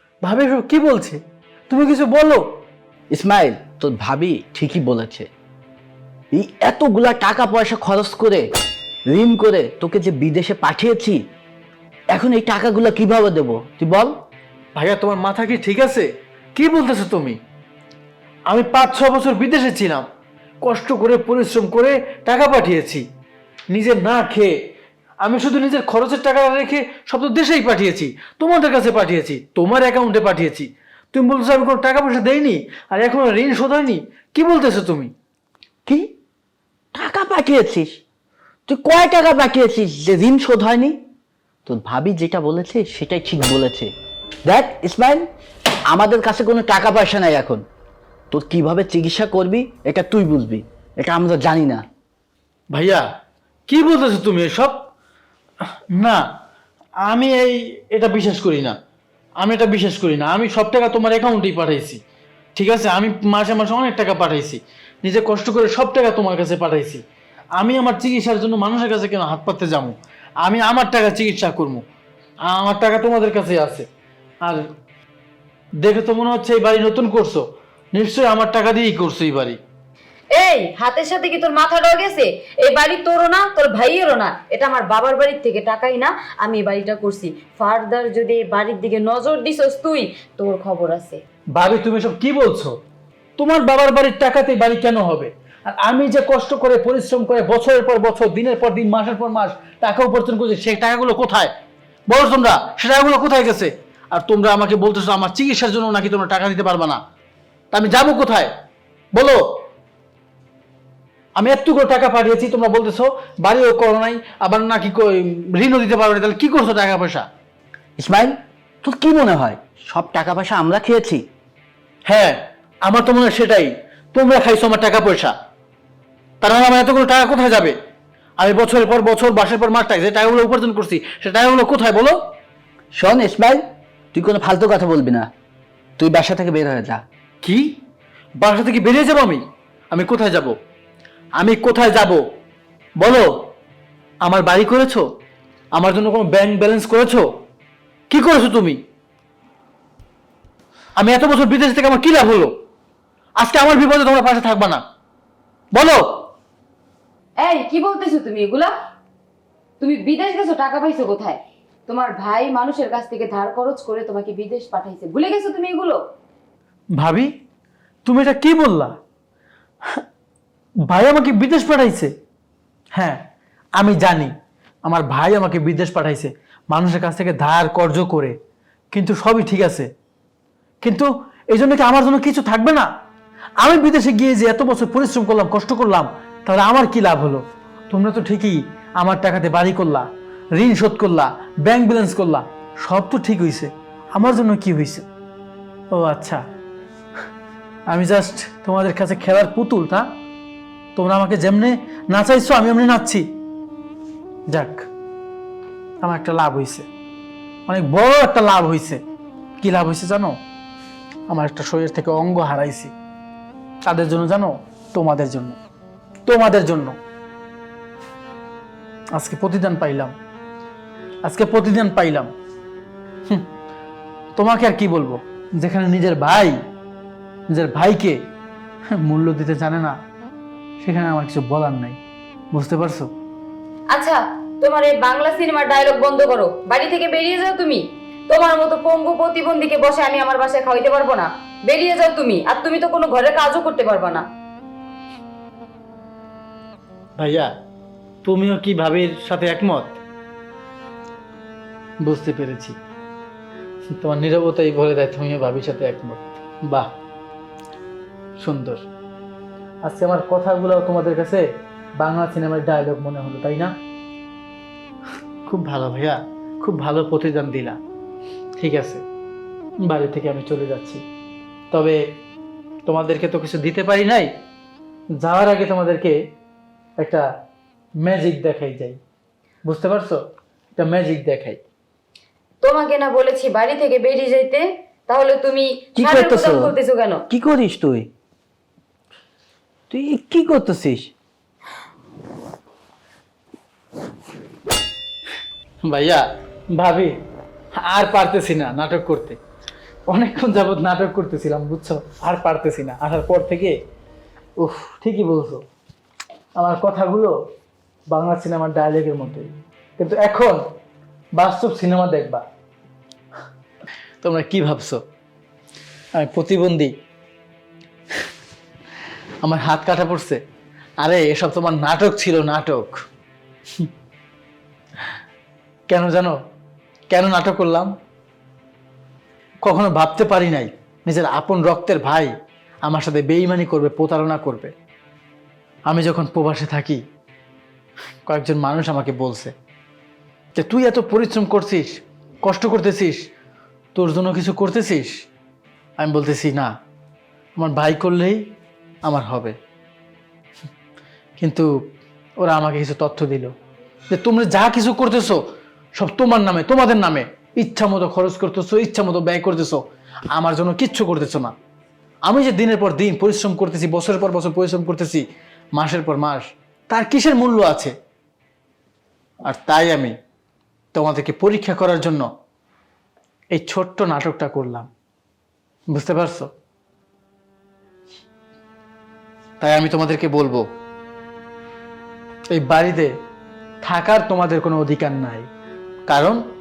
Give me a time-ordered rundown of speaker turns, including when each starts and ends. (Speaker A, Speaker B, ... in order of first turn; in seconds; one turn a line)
Speaker A: 0.2-2.4
Speaker B: 3.1-5.3
Speaker B: 6.3-8.4
Speaker B: 9.1-11.2
Speaker B: 12.1-14.1
Speaker A: 14.7-17.4
Speaker A: 18.5-20.0
Speaker A: 20.6-23.0
Speaker A: 23.7-24.5
Speaker A: 25.2-35.1
Speaker B: 36.9-38.0
Speaker B: 38.7-41.0
Speaker B: 41.6-43.9
Speaker B: 44.5-45.3
Speaker B: 45.9-47.6
Speaker B: 48.3-51.8
Speaker A: 52.7-53.0
Speaker A: 53.7-54.9
Speaker A: 55.9-56.2
Speaker A: 57.0-58.8
Speaker A: 59.4-62.0
Speaker A: 62.5-67.0
Speaker A: 67.5-71.8
Speaker A: 72.4-73.9
Speaker A: 75.8-79.6
Speaker C: 80.3-91.2
Speaker A: 91.5-92.7
Speaker A: 93.4-101.5
Speaker A: 102.1-107.0
Speaker A: 107.7-108.5
Speaker A: 109.1-109.4
Speaker A: 111.3-117.2
Speaker B: 118.0-121.2
Speaker A: 122.0-125.3
Speaker A: 126.4-127.8
Speaker A: 128.4-132.2
Speaker B: 132.9-135.3
Speaker B: 136.0-137.0
Speaker A: 138.4-140.5
Speaker A: 141.4-142.2
Speaker A: 143.0-143.3
Speaker A: 144.2-145.1
Speaker A: 145.7-147.3
Speaker A: 148.1-148.8
Speaker A: 150.9-152.5
Speaker A: 153.4-154.8
Speaker A: 155.7-156.0
Speaker C: 157.4-158.7
Speaker C: 159.8-166.0
Speaker A: 167.0-167.3
Speaker A: 168.0-168.9
Speaker A: 170.9-172.1
Speaker A: 172.9-173.2
Speaker A: 173.8-174.3
Speaker A: 174.8-178.3
Speaker A: 178.9-179.9
Speaker A: 180.8-182.9
Speaker A: 183.6-195.0
Speaker A: 195.9-196.4
Speaker A: 197.9-200.1
Speaker A: 200.9-203.2
Speaker A: 204.5-204.9
Speaker A: 206.0-206.9
Speaker A: 207.7-209.0
Speaker A: 209.6-210.3
Speaker A: 211.3-212.9
Speaker A: 213.8-215.6
Speaker A: 216.2-216.9
Speaker A: 219.1-220.1
Speaker A: 221.2-222.3
Speaker A: 224.3-226.6
Speaker A: 227.5-228.2
Speaker A: 228.9-229.9
Speaker A: 230.8-232.0
Speaker A: 232.5-233.1
Speaker C: 233.9-244.2
Speaker A: 247.2-247.5
Speaker A: 248.2-250.0
Speaker A: 252.0-252.7
Speaker A: 253.9-256.9
Speaker A: 258.4-258.8
Speaker A: 259.8-261.4
Speaker A: 262.0-263.7
Speaker A: 265.4-267.8
Speaker A: 268.6-269.0
Speaker A: 269.8-271.0
Speaker A: 271.7-272.0
Speaker A: 272.9-274.3
Speaker A: 275.2-276.2
Speaker A: 277.0-277.2
Speaker A: 278.0-279.0
Speaker A: 279.6-280.2
Speaker A: 280.8-281.6
Speaker C: 282.6-287.2
Speaker B: 286.0-286.7
Speaker B: 287.3-288.1
Speaker B: 289.9-291.1
Speaker A: 295.8-296.2
Speaker A: 296.7-297.1
Speaker A: 297.8-299.4
Speaker A: 300.1-303.7
Speaker A: 304.6-305.6
Speaker A: 306.6-307.3
Speaker A: 308.1-310.6
Speaker A: 311.3-312.4
Speaker A: 314.2-315.0
Speaker A: 316.1-316.9
Speaker A: 319.4-320.4
Speaker A: 321.0-323.0
Speaker A: 325.9-326.4
Speaker A: 327.1-327.9
Speaker A: 329.6-332.3
Speaker A: 332.8-334.7
Speaker A: 335.9-337.0
Speaker A: 338.2-339.5
Speaker A: 340.6-343.2
Speaker A: 343.9-345.1
Speaker A: 346.0-346.7
Speaker A: 347.6-348.4
Speaker A: 349.0-349.6
Speaker A: 351.4-351.7
Speaker A: 352.4-353.5
Speaker A: 354.1-355.4
Speaker A: 355.9-361.5
Speaker A: 362.2-365.2
Speaker A: 365.7-367.9
Speaker A: 369.4-370.1
Speaker A: 370.9-372.3
Speaker A: 373.5-374.9
Speaker A: 375.9-376.5
Speaker A: 379.6-380.6
Speaker A: 382.5-383.1
Speaker A: 383.8-385.5
Speaker A: 386.1-386.4